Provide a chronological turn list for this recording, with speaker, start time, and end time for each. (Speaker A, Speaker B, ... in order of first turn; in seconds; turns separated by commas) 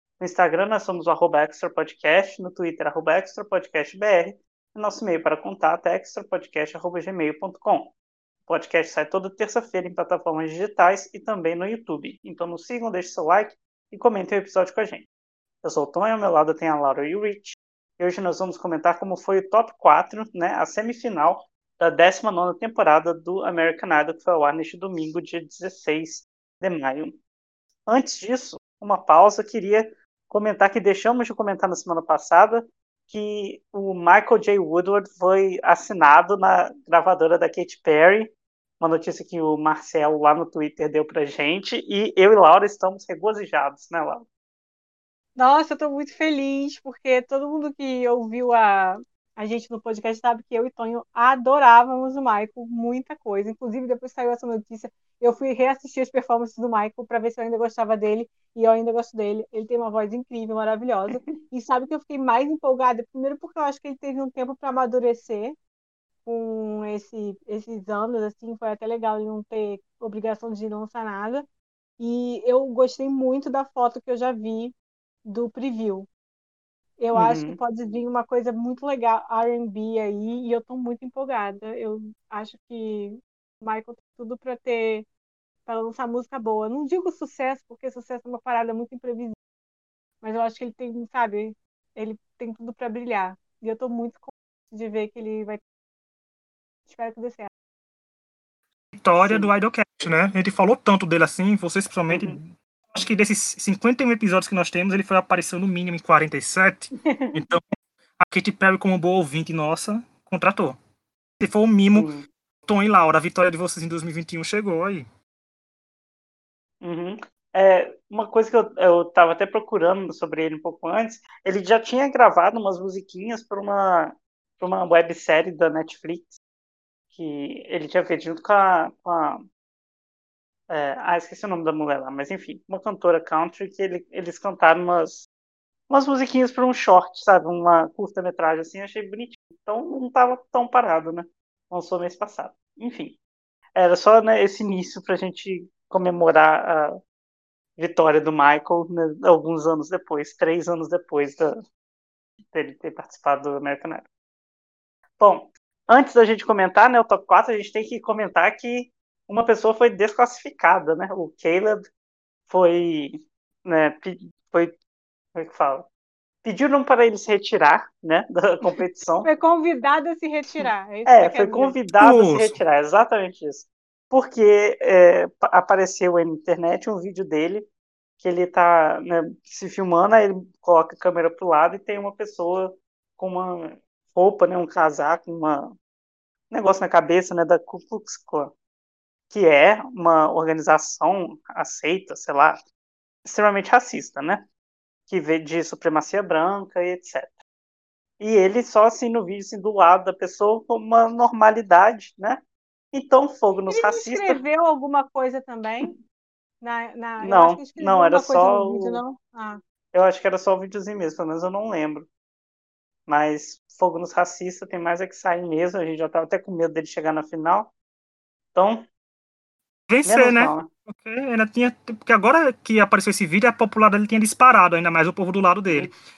Speaker A: 0.2-7.9, Speaker A: 8.5-15.1, Speaker A: 15.6-27.2, Speaker A: 27.9-44.3, Speaker B: 45.4-65.6, Speaker A: 61.1-61.4, Speaker B: 66.2-71.5, Speaker B: 72.0-76.1, Speaker B: 77.0-85.1, Speaker A: 77.1-77.6, Speaker B: 85.7-89.3, Speaker B: 90.2-95.6, Speaker B: 96.9-97.5, Speaker C: 98.9-107.6, Speaker A: 99.2-99.5, Speaker A: 102.1-102.4, Speaker C: 108.2-110.8, Speaker C: 111.4-112.1, Speaker A: 111.9-112.3, Speaker C: 112.7-115.1, Speaker A: 116.8-126.4, Speaker A: 127.1-129.4, Speaker A: 130.7-135.3, Speaker A: 135.9-143.2, Speaker A: 143.8-146.9, Speaker A: 147.8-151.5, Speaker A: 152.5-154.1, Speaker A: 155.2-161.9, Speaker A: 162.5-164.8, Speaker A: 165.3-165.9, Speaker A: 166.4-169.3, Speaker B: 168.7-171.8, Speaker A: 170.5-177.7, Speaker C: 172.0-172.6, Speaker A: 178.2-185.7, Speaker A: 186.5-188.5, Speaker A: 189.3-192.6, Speaker A: 193.2-194.5, Speaker A: 195.1-197.4, Speaker A: 198.2-202.4, Speaker A: 202.9-204.4, Speaker B: 203.7-205.9, Speaker B: 206.6-209.6, Speaker A: 207.2-209.0, Speaker A: 209.9-212.1, Speaker A: 213.1-217.7, Speaker A: 218.5-218.9, Speaker C: 219.9-225.9, Speaker A: 220.1-220.7